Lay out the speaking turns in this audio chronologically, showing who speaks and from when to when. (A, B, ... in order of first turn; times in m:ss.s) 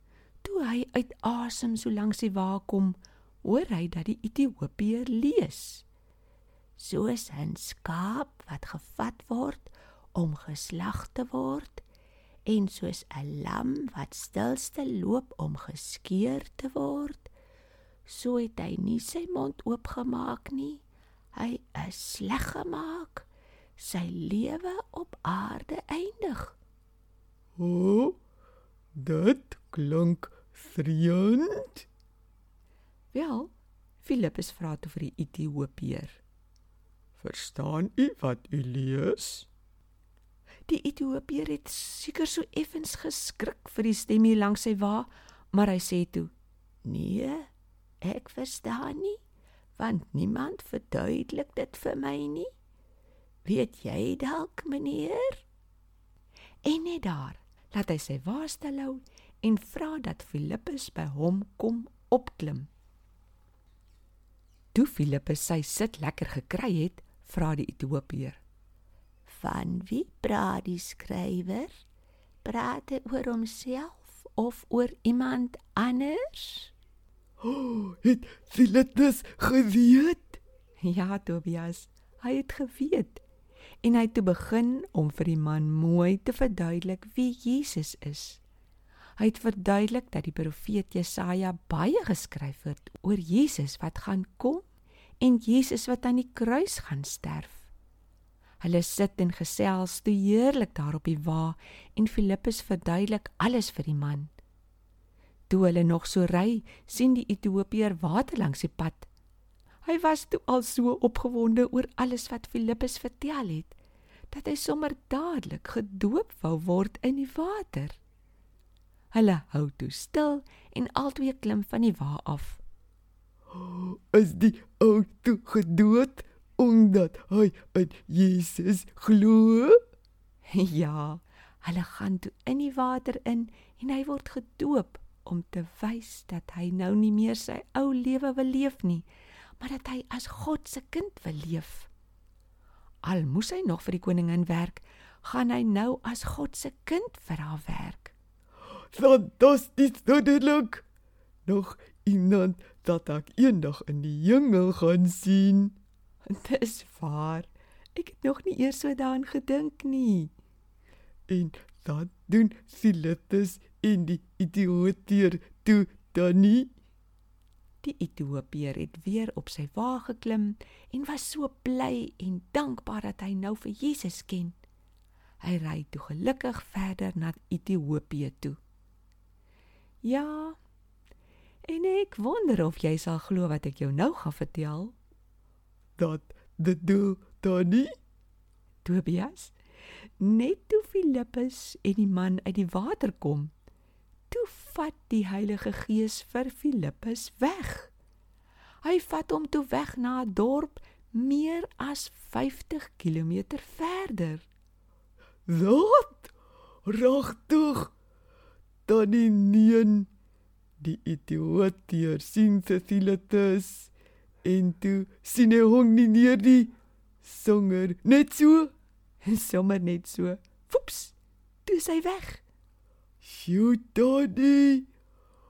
0:00.4-0:05.8 A
0:06.8-0:11.8 A
0:12.5-0:17.3 A
0:18.1-0:26.6 A
0:27.6-0:28.2 B
0:29.0-0:31.9 B
0:33.1-0:33.5 A
0:34.0-0:36.2 A
0:37.2-0:39.5 B
0:40.7-0:46.3 A
0:46.8-0:47.5 A
0:48.0-0:49.2 A
0:49.8-0:52.5 A
0:53.4-0:55.4 A
0:56.6-1:02.7 A
1:04.7-1:08.4 A
1:09.3-1:11.8 A
1:12.4-1:16.7 A
1:17.4-1:20.4 B
1:20.8-1:23.2 A
1:23.8-1:28.4 A
1:29.2-1:34.7 A
1:35.2-1:37.7 A
1:38.6-1:44.3 A
1:45.5-1:49.1 A
1:49.8-1:53.8 A
1:54.3-1:58.0 A
1:59.1-2:02.6 A
2:03.5-2:09.8 B
2:10.5-2:19.1 A
2:19.6-2:21.9 A
2:23.0-2:28.1 A
2:28.9-2:30.9 B
2:31.5-2:35.8 B
2:36.3-2:40.3 A
2:41.3-2:46.7 B
2:47.8-2:54.6 A
2:55.4-2:58.6 A
3:00.0-3:00.6 A
3:01.7-3:05.0 A
3:06.0-3:07.9 B
3:08.8-3:09.6 A
3:10.2-3:13.5 A
3:14.3-3:17.9 A
3:18.8-3:24.5 A
3:25.5-3:26.3 B
3:26.9-3:27.9 B
3:28.9-3:30.1 B
3:30.8-3:33.9 B
3:34.4-3:36.7 B
3:37.2-3:38.7 B
3:39.2-3:42.4 A
3:43.2-3:44.9 B